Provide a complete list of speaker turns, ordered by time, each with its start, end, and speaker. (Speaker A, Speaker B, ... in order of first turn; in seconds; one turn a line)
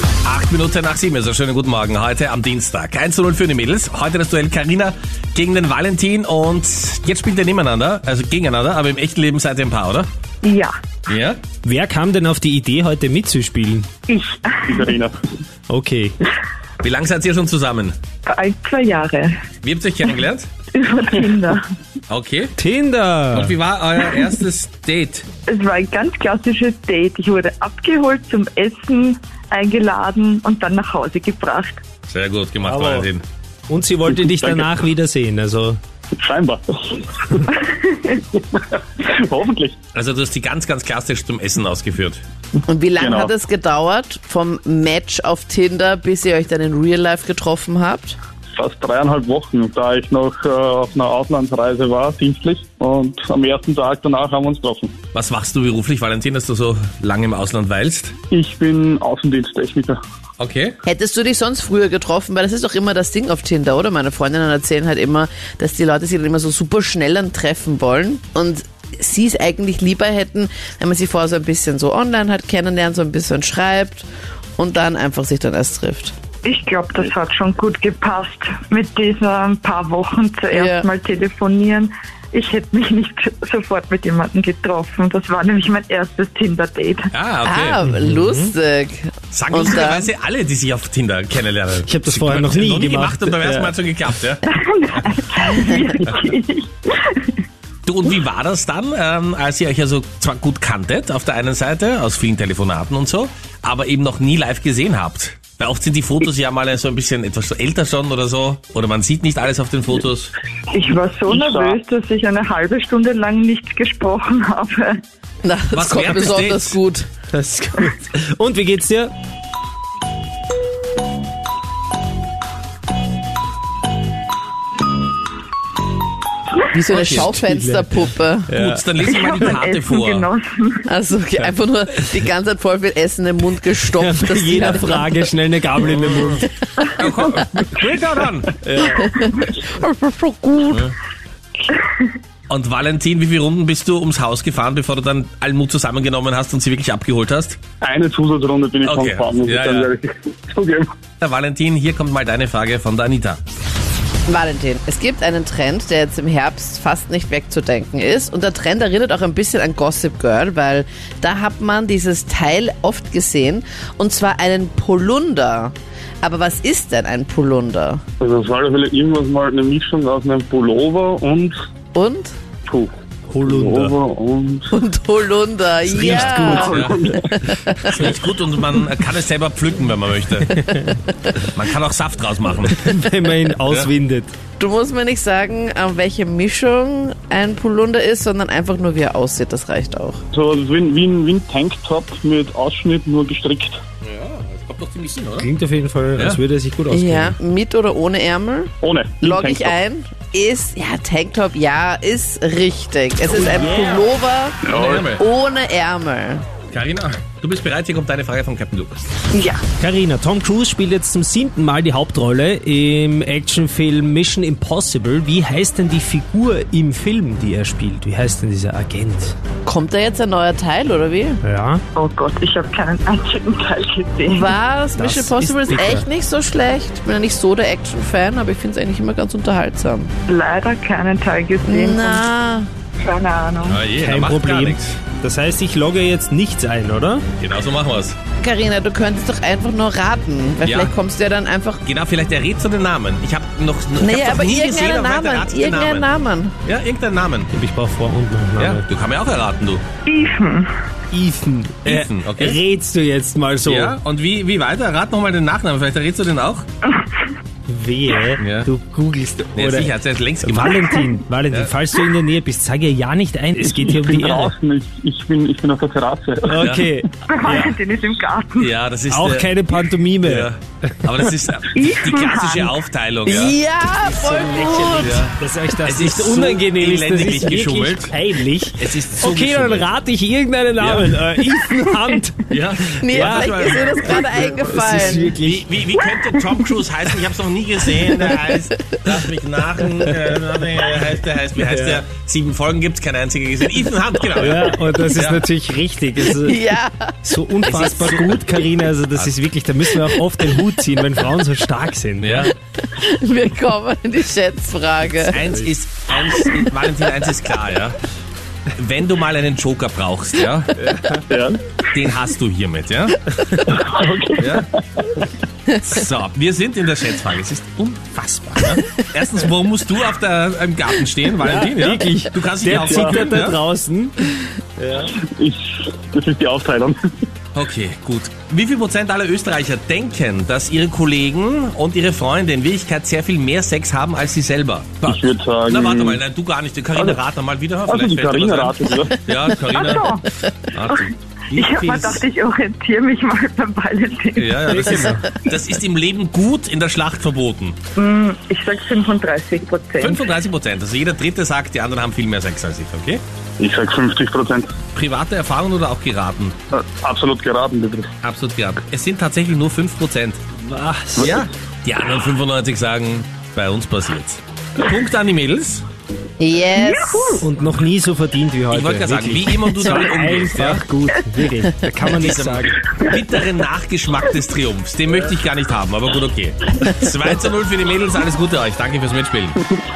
Speaker A: 0.2-10.1
Speaker B: 10.4-10.7
Speaker A: 11.1-11.4
Speaker C: 11.6-13.9
Speaker B: 14.1-15.0
Speaker D: 14.7-15.2
Speaker C: 15.7-16.1
Speaker A: 16.8-17.9
Speaker B: 18.2-19.3
Speaker A: 19.6-20.5
Speaker B: 20.7-21.6
Speaker A: 22.1-22.5
Speaker C: 22.6-23.6
Speaker A: 23.3-25.2
Speaker B: 25.5-31.8
Speaker A: 32.1-33.2
Speaker C: 32.6-33.1
Speaker C: 33.7-35.8
Speaker D: 34.1-34.7
Speaker D: 36.1-37.5
Speaker B: 37.5-38.2
Speaker D: 38.5-39.8
Speaker A: 39.9-42.2
Speaker E: 42.7-48.2
Speaker D: 43.0-43.3
Speaker D: 48.6-54.9
Speaker A: 55.1-58.1
Speaker D: 58.3-60.0
Speaker A: 60.4-60.8
Speaker E: 60.9-74.1
Speaker E: 74.6-76.1
Speaker B: 76.4-87.1
Speaker E: 80.5-80.9
Speaker A: 87.1-87.8
Speaker E: 87.4-90.1
Speaker C: 87.9-88.5
Speaker A: 89.3-94.4
Speaker C: 91.8-93.7
Speaker B: 94.4-97.4
Speaker A: 97.8-110.3
Speaker B: 110.7-115.0
Speaker D: 111.3-111.8
Speaker E: 115.4-117.1
Speaker A: 115.7-116.8
Speaker C: 117.3-119.1
Speaker E: 126.7-128.5
Speaker A: 126.9-127.2
Speaker C: 127.0-127.9
Speaker C: 128.5-128.9
Speaker A: 128.6-130.3
Speaker B: 129.0-130.9
Speaker E: 130.9-135.1
Speaker C: 133.9-136.5
Speaker A: 135.8-136.4
Speaker A: 137.0-138.6
Speaker C: 138.6-139.0
Speaker E: 138.9-140.9
Speaker B: 139.1-139.5
Speaker B: 141.7-142.1
Speaker A: 142.5-147.6
Speaker D: 147.8-150.9
Speaker A: 148.8-149.9
Speaker A: 151.2-153.4
Speaker E: 154.3-168.0
Speaker D: 168.2-171.5
Speaker E: 171.9-172.3
Speaker D: 172.7-174.7
Speaker C: 173.3-173.9
Speaker E: 174.7-177.9
Speaker A: 175.9-177.0
Speaker C: 175.9-177.2
Speaker D: 176.9-177.3
Speaker A: 177.8-180.6
Speaker A: 181.5-182.8
Speaker C: 182.7-184.3
Speaker A: 183.7-183.9
Speaker E: 184.6-190.2
Speaker D: 190.3-193.8
Speaker A: 194.0-195.5
Speaker C: 195.4-197.3
Speaker E: 196.9-206.4
Speaker D: 198.8-199.7
Speaker C: 203.3-204.0
Speaker A: 204.6-205.2
Speaker D: 204.7-205.0
Speaker A: 206.7-209.1
Speaker B: 209.3-209.6
Speaker C: 209.8-219.3
Speaker E: 219.6-221.4
Speaker C: 221.4-221.8
Speaker B: 221.9-224.6
Speaker E: 224.2-230.1
Speaker C: 224.9-226.1
Speaker B: 230.3-232.2
Speaker E: 231.6-232.7
Speaker B: 233.0-233.8
Speaker A: 233.6-234.8
Speaker C: 233.9-237.2
Speaker A: 237.4-238.2
Speaker E: 238.4-241.8
Speaker A: 240.6-240.9
Speaker A: 241.8-246.1
Speaker E: 244.0-246.5
Speaker A: 246.7-247.5
Speaker C: 247.5-248.9
Speaker A: 248.6-249.8
Speaker B: 250.1-250.7
Speaker C: 251.1-253.9
Speaker A: 251.8-252.6
Speaker A: 253.6-256.6
Speaker C: 257.7-264.5
Speaker A: 258.4-258.7
Speaker A: 259.5-261.7
Speaker D: 263.5-266.6
Speaker C: 266.4-267.8
Speaker A: 266.6-266.9
Speaker B: 267.2-268.7
Speaker A: 268.6-273.5
Speaker C: 269.1-271.0
Speaker B: 271.7-272.8
Speaker E: 273.2-275.2
Speaker A: 274.4-278.2
Speaker C: 274.6-285.7
Speaker A: 278.8-279.9
Speaker A: 280.8-281.4
Speaker A: 282.5-284.5
Speaker E: 283.0-285.4
Speaker A: 285.4-295.4
Speaker B: 286.0-286.4
Speaker C: 291.6-292.0
Speaker C: 294.4-296.6
Speaker E: 296.3-297.1
Speaker C: 297.2-302.5
Speaker A: 297.6-298.6
Speaker A: 302.2-302.5
Speaker E: 302.8-305.4
Speaker A: 305.2-307.9
Speaker A: 308.7-310.7
Speaker C: 310.8-311.2
Speaker D: 311.3-311.8
Speaker A: 311.9-313.2
Speaker D: 313.6-315.1
Speaker A: 314.4-314.6
Speaker A: 315.8-323.6
Speaker C: 318.1-318.8
Speaker C: 321.4-325.1
Speaker D: 322.8-323.2
Speaker D: 325.1-327.0
Speaker A: 327.5-340.1
Speaker D: 335.0-336.2
Speaker D: 337.9-339.2
Speaker B: 339.7-340.3
Speaker A: 340.7-341.1
Speaker B: 340.9-344.9
Speaker C: 341.5-342.2
Speaker A: 344.4-347.8
Speaker C: 344.7-345.3
Speaker B: 347.9-350.2
Speaker A: 350.0-353.2
Speaker D: 353.6-354.7
Speaker A: 354.9-356.5
Speaker D: 356.7-358.1
Speaker A: 358.2-360.4
Speaker C: 360.6-361.3
Speaker A: 361.2-365.8
Speaker E: 366.4-367.4
Speaker B: 366.7-367.5
Speaker C: 367.4-372.8
Speaker A: 368.7-370.9
Speaker A: 372.0-379.6
Speaker B: 372.9-373.5